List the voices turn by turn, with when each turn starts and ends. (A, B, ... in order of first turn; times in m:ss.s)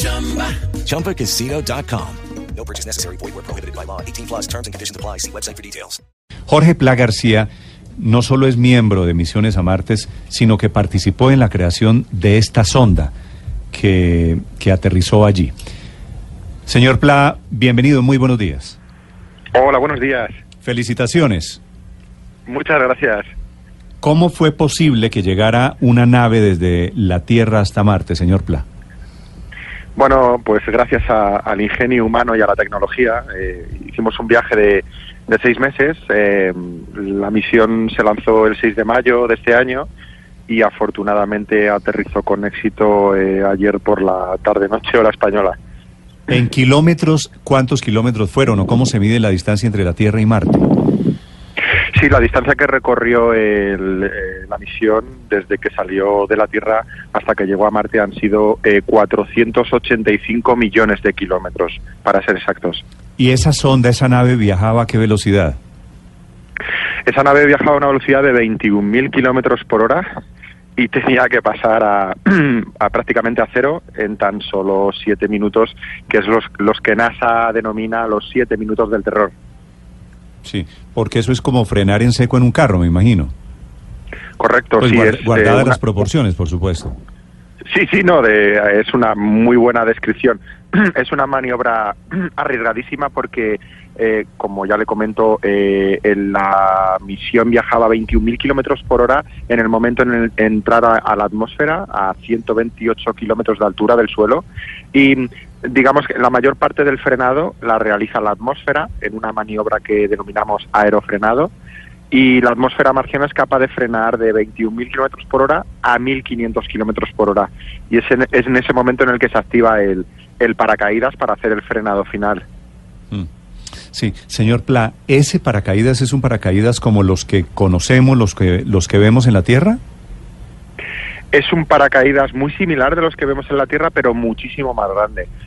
0:00.3-0:06.0 A
0:06.5-0:13.1 B
0:13.7-0:15.5 B
0:16.7-0:18.8 B
0:19.5-0:20.3 C
0:20.6-0:21.6 B
0:22.5-0:23.3 C
0:24.0-0:28.6 B
0:30.0-0:39.9 C
0:40.5-0:45.6 C
0:46.3-0:50.7 B
0:52.0-1:02.8 C
1:03.2-1:05.6 B
1:07.1-1:10.0 C
1:10.8-1:19.3 C
1:20.4-1:23.3 B
1:24.4-1:25.8 C
1:24.8-1:26.9 B
1:27.7-1:51.5 C
1:52.1-2:02.4 C
2:03.9-2:09.8 B
2:11.3-2:15.3 C